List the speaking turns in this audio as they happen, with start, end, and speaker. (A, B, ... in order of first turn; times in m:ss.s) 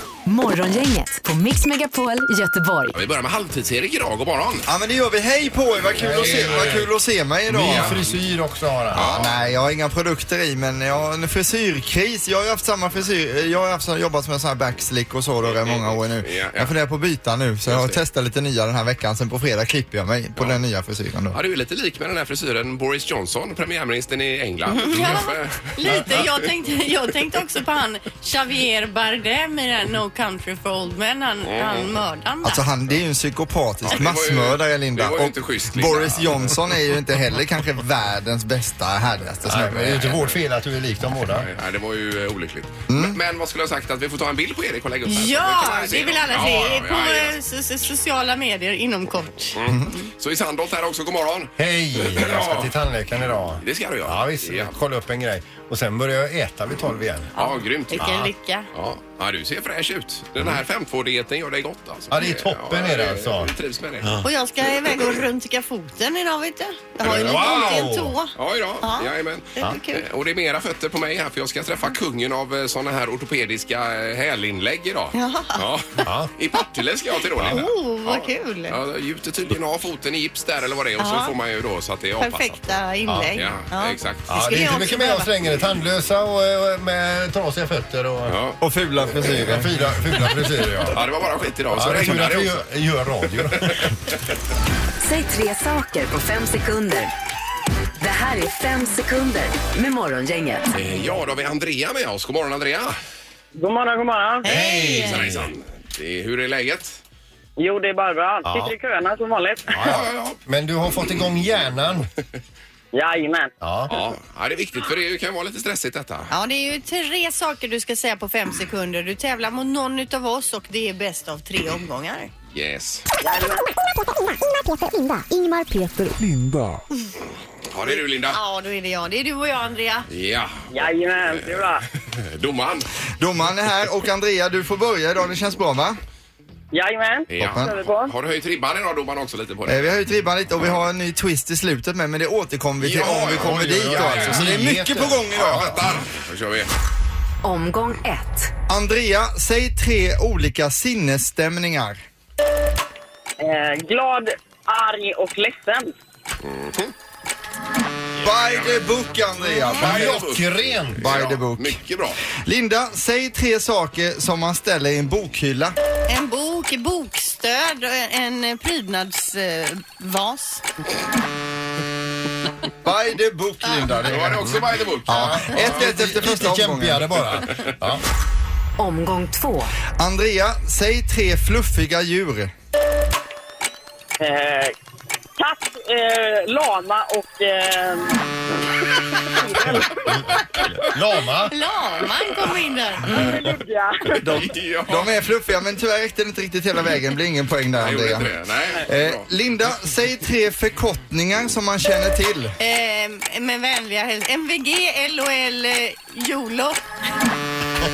0:00.3-0:03.0 A
0:02.9-0:04.7 B
0:04.7-0:08.0 C
0:06.0-0:06.8 B
0:06.0-0:06.9 D
0:07.5-0:09.4 D
0:07.6-0:08.2 B
0:08.9-0:09.4 B
0:08.9-0:21.4 C
0:15.4-0:16.7 B
0:17.7-0:18.0 B
0:21.3-0:26.3 B
0:24.7-0:32.6 E
0:31.4-0:31.9 B
0:32.4-0:40.2 C
0:33.9-0:36.6 B
0:39.4-0:41.5 D
0:41.3-0:47.3 B
0:42.9-0:43.2 C
0:45.1-0:50.0 E
0:49.6-0:52.7 B
0:51.6-0:57.3 D
0:53.6-0:54.7 B
0:57.4-0:58.1 B
0:57.4-0:58.7 E
0:58.0-0:58.3 D
0:58.7-1:04.2 B
1:02.1-1:03.5 D
1:04.2-1:10.0 E
1:07.0-1:08.2 D
1:07.0-1:22.6 B
1:15.1-1:15.6 E
1:16.0-1:16.3 D
1:17.5-1:18.8 E
1:21.0-1:21.3 E
1:22.2-1:25.3 E
1:23.1-1:23.3 D
1:23.4-1:24.3 B
1:24.3-1:28.4 D
1:28.3-1:28.6 B
1:28.6-1:29.7 C
1:29.1-1:31.0 D
1:30.9-1:32.6 B
1:31.7-1:34.0 D
1:35.0-1:37.1 A
1:38.0-1:40.6 A
1:40.7-1:43.0 B
1:43.6-1:44.4 F
1:44.4-1:45.2 E
1:44.5-1:45.5 D
1:44.8-1:47.0 B
1:47.6-1:49.8 F
1:48.4-1:48.7 D
1:49.7-1:52.1 D
1:49.8-1:50.4 B
1:52.9-1:53.5 F
1:53.6-1:54.0 D
1:53.9-1:56.3 B
1:56.3-2:02.3 E
2:02.5-2:03.1 B
2:03.2-2:03.6 F
2:03.8-2:06.8 G
2:07.7-2:08.4 B
2:07.9-2:10.1 E
2:10.1-2:12.9 B
2:10.7-2:11.8 F
2:13.2-2:16.0 C
2:16.7-2:18.1 F
2:17.3-2:20.0 B
2:17.4-2:17.7 C
2:19.7-2:25.8 C
2:22.8-2:24.6 B
2:23.3-2:25.8 D
2:25.3-2:26.7 B
2:27.4-2:28.5 A
2:28.7-2:32.0 C
2:33.4-2:35.9 F
2:36.4-2:36.9 B
2:38.2-2:38.8 B
2:38.2-2:40.2 C
2:39.7-2:42.2 B
2:39.8-2:41.2 D
2:41.0-2:45.8 C
2:46.1-2:50.6 E
2:52.8-2:57.1 C
2:54.0-2:56.0 B
2:55.1-2:58.0 D
2:57.4-2:57.7 B
2:58.8-2:59.7 A
3:00.0-3:02.5 C
3:04.2-3:04.8 F
3:05.4-3:08.2 F
3:09.3-3:09.9 F
3:09.7-3:10.3 D
3:10.8-3:11.5 D
3:11.5-3:13.3 E
3:13.1-3:14.3 F
3:14.3-3:18.3 C
3:14.3-3:15.1 B
3:17.8-3:19.3 B
3:18.9-3:22.6 C
3:22.6-3:26.8 E